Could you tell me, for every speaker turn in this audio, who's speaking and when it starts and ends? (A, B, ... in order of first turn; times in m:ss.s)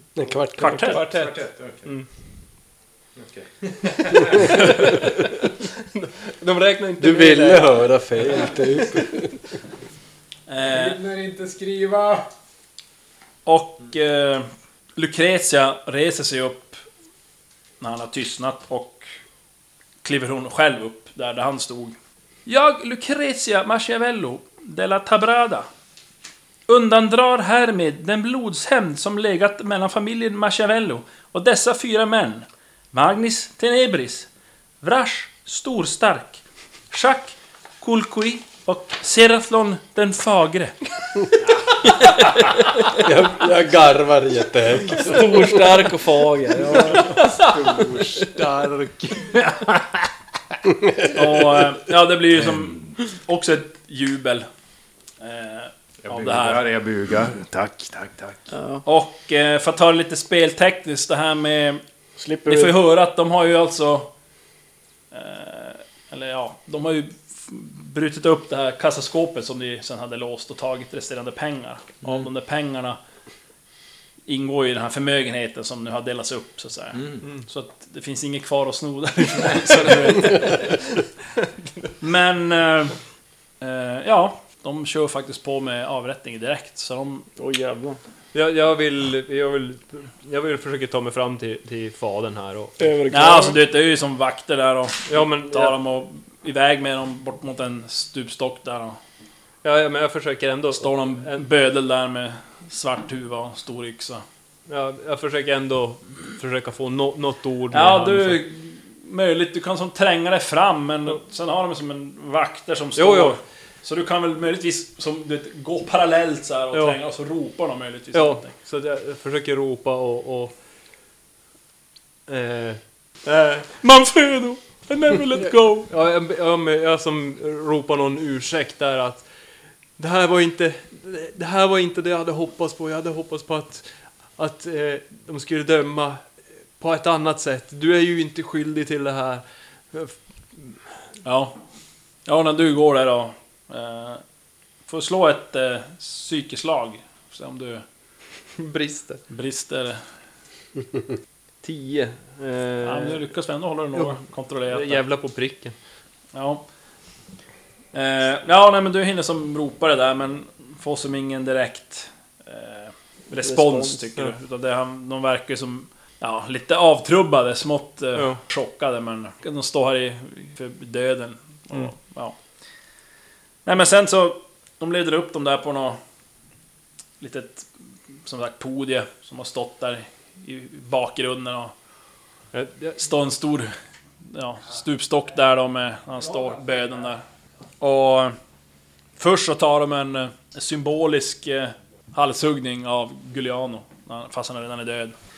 0:00.2-0:01.0 A
0:00.6-0:01.1 B
0:00.6-0:02.0 C
0:00.8-0:02.1 D
0:03.2-0:05.1 C
0:04.0-0:09.0 D
0:07.0-0:09.4 A
0:10.5-0:11.0 B
0:10.6-0:12.3 C
0:13.5-0:16.8 B
0:17.8-0:19.1 B
0:20.0-0:25.7 B
0:26.7-0:34.3 B
0:34.8-0:40.8 B
0:43.0-0:45.6 A
0:44.9-0:47.4 E
0:46.8-0:50.1 C
0:50.8-0:51.2 A
0:51.1-0:54.5 B
0:52.4-0:52.9 C
0:55.2-0:56.6 B
0:56.0-0:58.5 C
0:58.5-0:58.8 E
0:58.8-1:01.8 B
1:02.2-1:02.8 E
1:02.5-1:04.1 B
1:05.1-1:13.0 B
1:14.3-1:20.8 B
1:17.0-1:17.3 C
1:20.4-1:20.6 D
1:22.0-1:23.0 B
1:23.6-1:27.3 B
1:27.4-1:28.0 E
1:28.3-1:32.9 D
1:32.8-1:33.6 E
1:33.1-1:39.0 B
1:35.1-1:35.8 D
1:39.6-1:41.5 D
1:40.7-1:44.2 B
1:44.7-1:48.4 D
1:47.7-1:58.5 B
1:53.0-1:53.4 D
1:56.7-1:57.0 D
1:58.1-2:00.5 D
2:02.3-2:03.8 D
2:03.8-2:05.9 B
2:05.9-2:09.3 D
2:10.0-2:20.7 D
2:21.2-2:21.6 B
2:22.3-2:24.2 B
2:24.9-2:27.8 B
2:28.6-2:29.2 D
2:29.3-2:30.0 B
2:31.6-2:33.3 D
2:32.8-2:35.0 B
2:33.9-2:35.8 D
2:36.3-2:36.6 B
2:37.9-2:52.4 B
2:43.4-2:44.0 E
2:53.6-2:56.0 B
2:57.2-2:57.7 B
2:58.3-3:01.7 B
3:02.5-3:03.0 D
3:03.0-3:03.7 B
3:04.2-3:07.2 B
3:07.8-3:08.4 B
3:09.2-3:15.2 B